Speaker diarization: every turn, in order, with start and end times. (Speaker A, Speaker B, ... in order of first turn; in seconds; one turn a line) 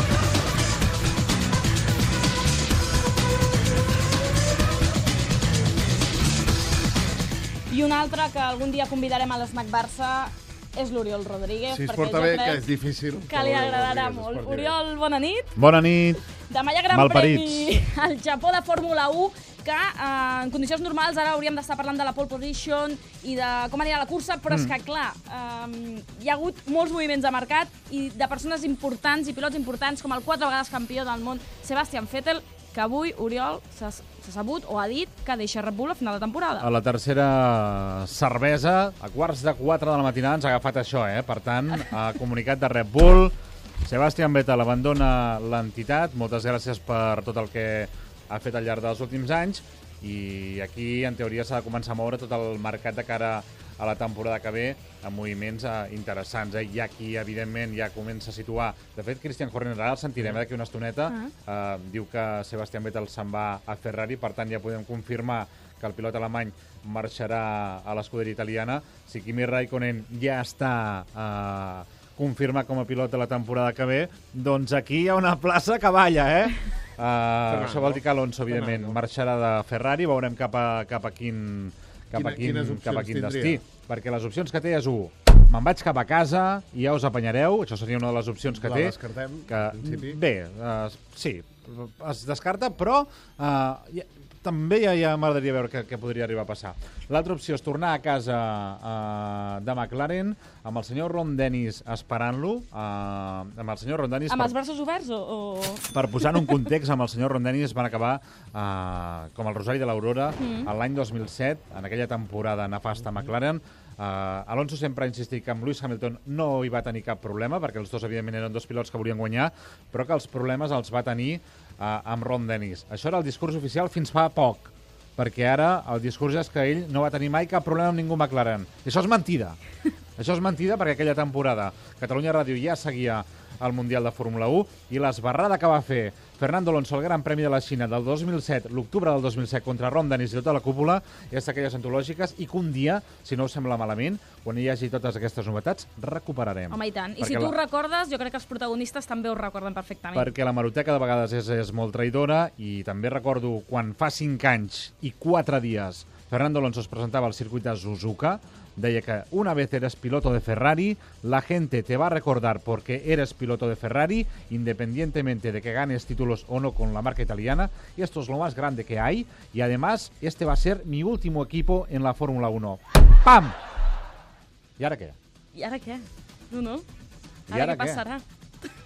Speaker A: 7.7-12.6
Speaker B: 11.7-14.8
Speaker A: 13.3-15.5
Speaker C: 15.6-16.2
Speaker A: 16.3-36.7
Speaker C: 17.0-17.5
Speaker C: 36.6-88.9
Speaker B: 77.5-79.0
Speaker B: 82.1-83.6
Speaker B: 88.6-90.2
Speaker C: 89.5-104.5
Speaker A: 104.3-106.7
Speaker C: 105.9-129.6
Speaker A: 110.4-110.7
Speaker C: 130.2-147.5
Speaker A: 146.7-150.3
Speaker C: 150.2-173.6
Speaker C: 174.8-175.2
Speaker A: 175.5-176.8
Speaker A: 177.5-178.2
Speaker C: 177.5-178.0